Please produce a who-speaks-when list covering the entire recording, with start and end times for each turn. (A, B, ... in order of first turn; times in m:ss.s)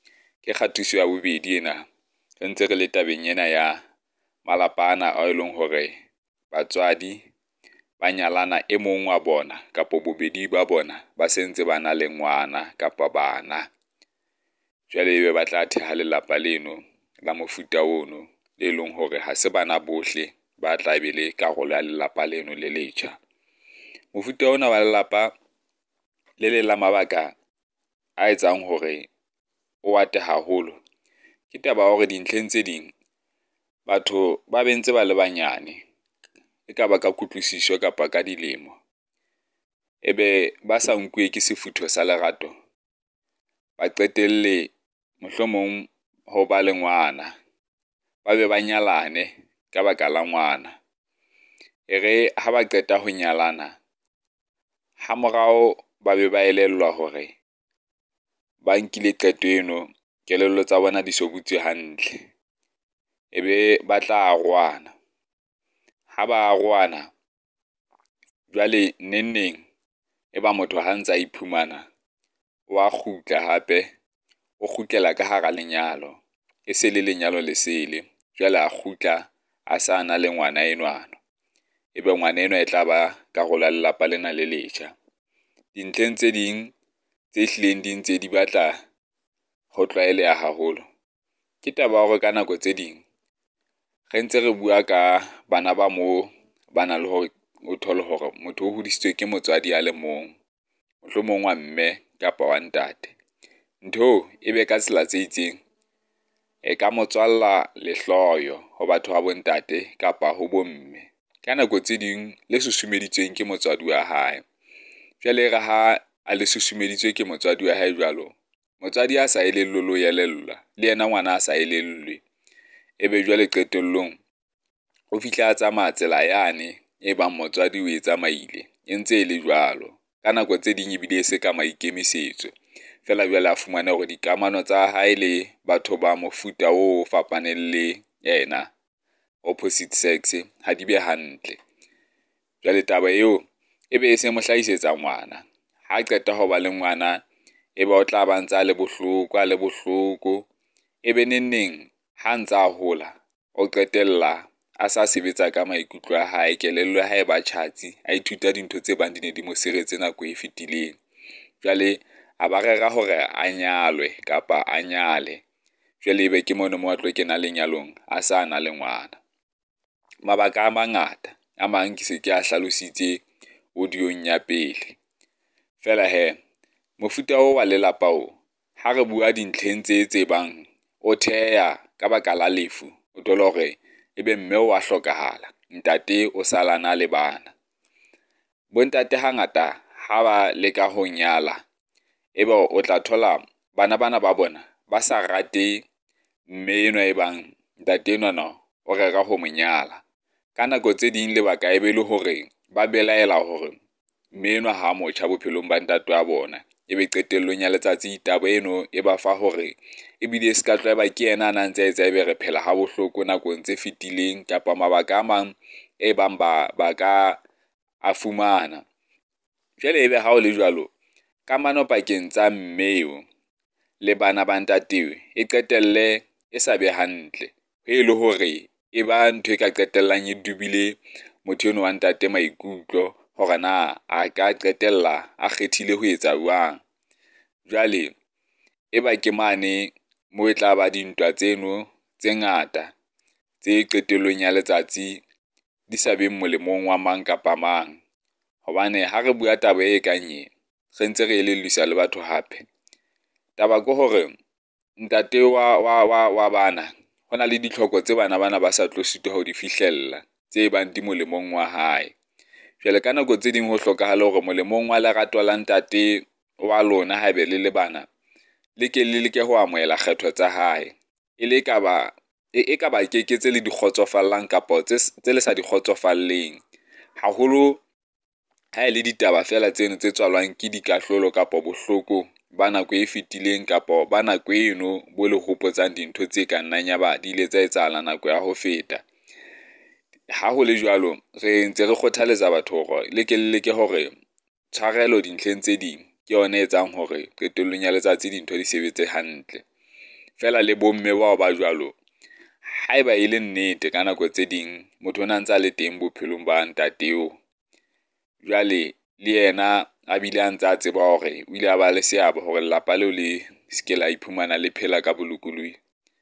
0:00.4-0:01.8 A
0:02.4-0:03.8 A
0:04.4-0:05.9 A
0:06.5-0:07.2 A
0:08.0-0:13.7 A
0:14.9-0:23.2 A
0:24.1-0:25.3 A
0:26.4-0:27.3 A
0:28.2-0:29.1 A
0:29.8-0:30.8 A
0:31.5-0:32.9 A
0:33.9-0:35.8 A
0:36.7-0:38.7 A
0:40.0-0:42.5 A
0:43.8-0:47.3 A
0:48.2-0:50.7 A
0:51.9-0:53.7 A
0:55.0-0:57.3 A
0:58.6-1:02.2 A
1:03.3-1:04.9 A
1:06.1-1:07.1 A
1:08.5-1:09.6 A
1:10.3-1:11.8 A
1:12.7-1:13.9 A
1:14.6-1:21.2 A
1:22.0-1:24.9 A
1:25.7-1:26.7 A
1:27.3-1:28.8 A
1:29.7-1:30.8 A
1:31.6-1:33.0 A
1:34.1-1:40.3 A
1:41.0-1:43.1 A
1:43.8-1:45.6 A
1:46.6-1:54.4 A
1:55.2-2:02.2 A
2:03.0-2:04.2 A
2:05.1-2:12.5 A
2:13.0-2:18.7 A
2:19.4-2:21.6 A
2:22.6-2:27.2 A
2:27.8-2:30.5 A
2:31.0-2:41.0 A
2:41.6-2:45.4 A
2:46.0-2:49.2 A
2:50.2-2:53.2 A
2:53.8-2:55.0 A
2:55.8-2:56.4 A
2:57.0-3:07.5 A
3:08.7-3:11.6 A
3:12.4-3:15.8 A
3:16.5-3:20.0 A
3:20.6-3:23.8 A
3:24.3-3:37.4 A
3:38.0-3:38.8 A
3:39.8-3:40.9 A
3:41.5-3:43.2 A
3:44.0-3:56.8 A
3:57.7-3:58.1 A
3:58.9-4:02.9 A
4:03.6-4:05.2 A
4:05.9-4:08.0 A
4:08.6-4:12.6 A
4:13.6-4:14.3 A
4:15.0-4:22.1 A
4:22.8-4:28.1 A
4:28.8-4:36.6 A
4:37.2-4:37.8 A
4:38.8-4:49.0 A
4:50.3-4:54.1 A
4:54.7-4:59.6 A
5:00.4-5:02.0 A
5:02.7-5:07.4 A
5:08.4-5:15.8 A